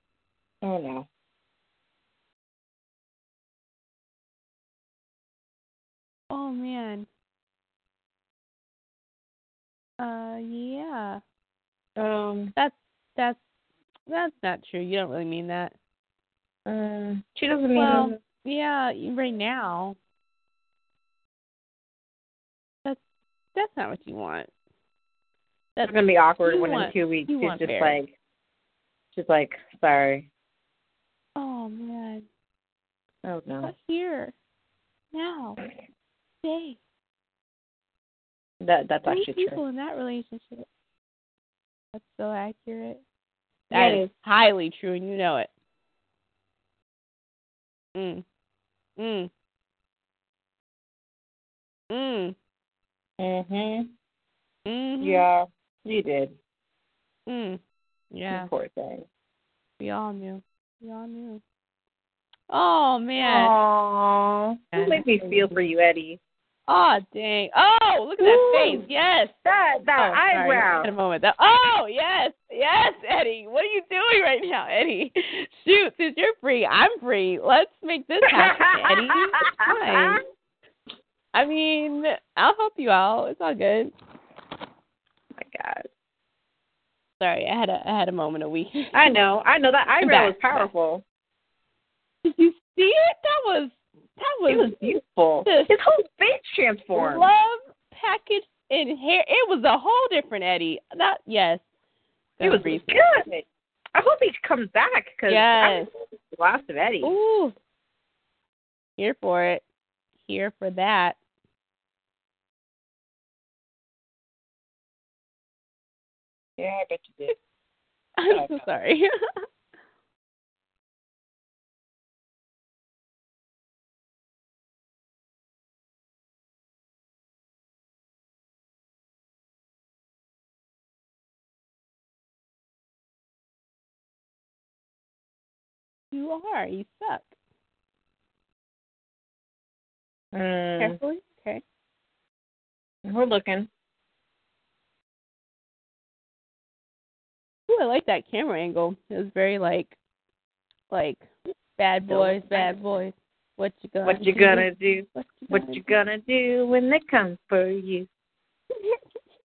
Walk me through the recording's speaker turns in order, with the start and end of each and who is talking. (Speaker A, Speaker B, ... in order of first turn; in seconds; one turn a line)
Speaker A: 0.6-1.1
Speaker B: 6.3-7.1
Speaker B: 10.0-11.2
Speaker A: 12.0-12.5
Speaker B: 12.6-13.4
Speaker B: 14.1-15.7
Speaker A: 16.7-18.2
Speaker B: 17.8-20.0
Speaker B: 23.5-24.5
Speaker B: 25.8-28.0
Speaker A: 25.9-28.1
Speaker A: 29.1-30.3
Speaker B: 31.4-32.2
Speaker A: 33.2-33.7
Speaker B: 33.6-34.3
Speaker B: 35.1-35.6
Speaker B: 36.4-36.8
Speaker A: 38.6-39.6
Speaker B: 39.1-40.6
Speaker B: 41.9-43.0
Speaker A: 43.7-44.1
Speaker B: 43.7-45.5
Speaker B: 48.0-48.2
Speaker B: 49.0-49.3
Speaker B: 51.9-52.4
Speaker A: 53.2-53.9
Speaker B: 54.7-55.3
Speaker A: 55.0-56.4
Speaker B: 57.3-57.6
Speaker B: 58.1-58.5
Speaker A: 58.3-59.0
Speaker B: 59.8-61.4
Speaker B: 62.5-63.5
Speaker A: 63.2-66.2
Speaker B: 64.7-65.6
Speaker B: 66.7-69.4
Speaker A: 68.2-68.8
Speaker A: 69.5-70.9
Speaker B: 70.0-80.2
Speaker A: 78.3-80.2
Speaker B: 81.3-83.9
Speaker A: 85.4-85.9
Speaker B: 87.2-89.1
Speaker A: 88.9-91.0
Speaker B: 90.0-90.7
Speaker B: 92.2-94.8
Speaker A: 94.5-97.3
Speaker B: 95.5-95.7
Speaker B: 96.9-101.6
Speaker B: 102.4-103.0
Speaker A: 102.4-107.2
Speaker B: 105.3-105.9
Speaker B: 107.0-107.5
Speaker B: 109.0-109.6
Speaker B: 110.3-111.2
Speaker A: 116.6-117.3
Speaker B: 118.2-119.1
Speaker A: 118.3-118.6
Speaker B: 136.1-137.3
Speaker A: 140.3-141.0
Speaker B: 140.8-141.6
Speaker A: 143.1-143.7
Speaker B: 147.7-149.9
Speaker B: 150.9-155.9
Speaker A: 152.1-152.7
Speaker A: 154.1-158.1